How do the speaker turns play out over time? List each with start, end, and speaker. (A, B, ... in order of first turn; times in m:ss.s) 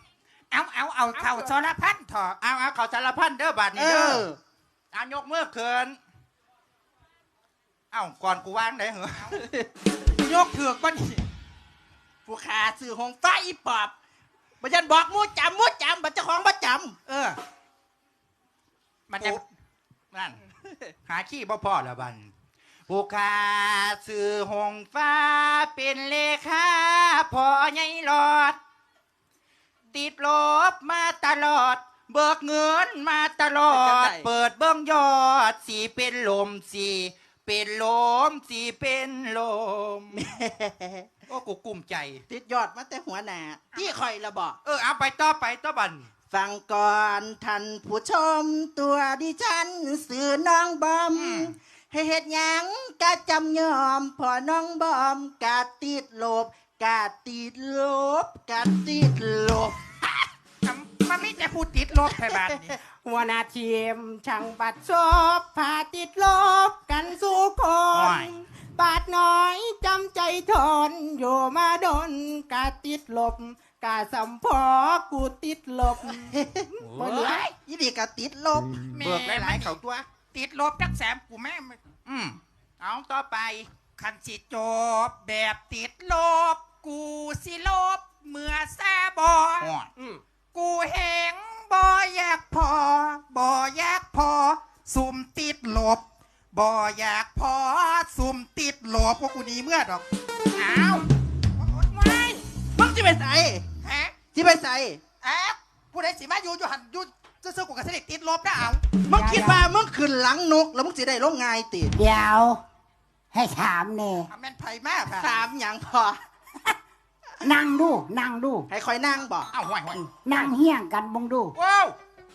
0:00.5-0:02.4 A
0:02.4-0:04.3 B
0:03.8-0:04.4 C
0:04.9-0:06.0 B
0:07.9-0:09.4 B
0:10.2-0:11.2 A
0:12.2-0:13.9 C
0:14.6-0:17.0 C
0:17.1-0:17.4 A
0:19.1-0:19.4 A
0:20.1-0:20.4 B
0:21.0-0:22.3 B
0:22.9-0:28.6 B
0:29.9-0:40.2 B
0:33.7-0:34.3 C
0:40.2-0:41.1 C
0:41.3-0:42.2 B
0:42.3-0:44.6 C
0:44.6-0:46.1 B
0:46.3-1:00.0 C
0:51.1-0:51.5 B
1:00.6-1:02.8 A
1:02.3-1:02.6 C
1:02.9-1:17.5 D
1:07.9-1:08.4 B
1:16.1-1:16.6 C
1:17.6-1:18.9 C
1:18.9-1:19.8 A
1:19.0-1:20.0 B
1:20.3-1:21.8 A
1:22.0-1:23.7 B
1:24.0-1:29.7 A
1:29.6-1:29.9 B
1:30.0-1:30.2 D
1:30.5-1:36.0 A
1:36.5-1:40.0 A
1:40.5-1:41.1 A
1:41.6-1:42.2 A
1:42.0-1:42.4 D
1:42.7-1:43.6 C
1:43.8-1:44.2 A
1:44.3-1:45.0 C
1:45.2-1:48.8 A
1:49.1-1:51.9 C
1:49.1-1:49.7 E
1:51.9-1:52.6 E
1:53.3-1:54.3 E
1:54.3-1:55.3 A
1:55.2-1:56.2 C
1:57.4-1:58.7 E
1:58.7-1:59.5 C
1:59.5-2:00.0 B
1:59.9-2:01.5 E
2:01.5-2:02.0 B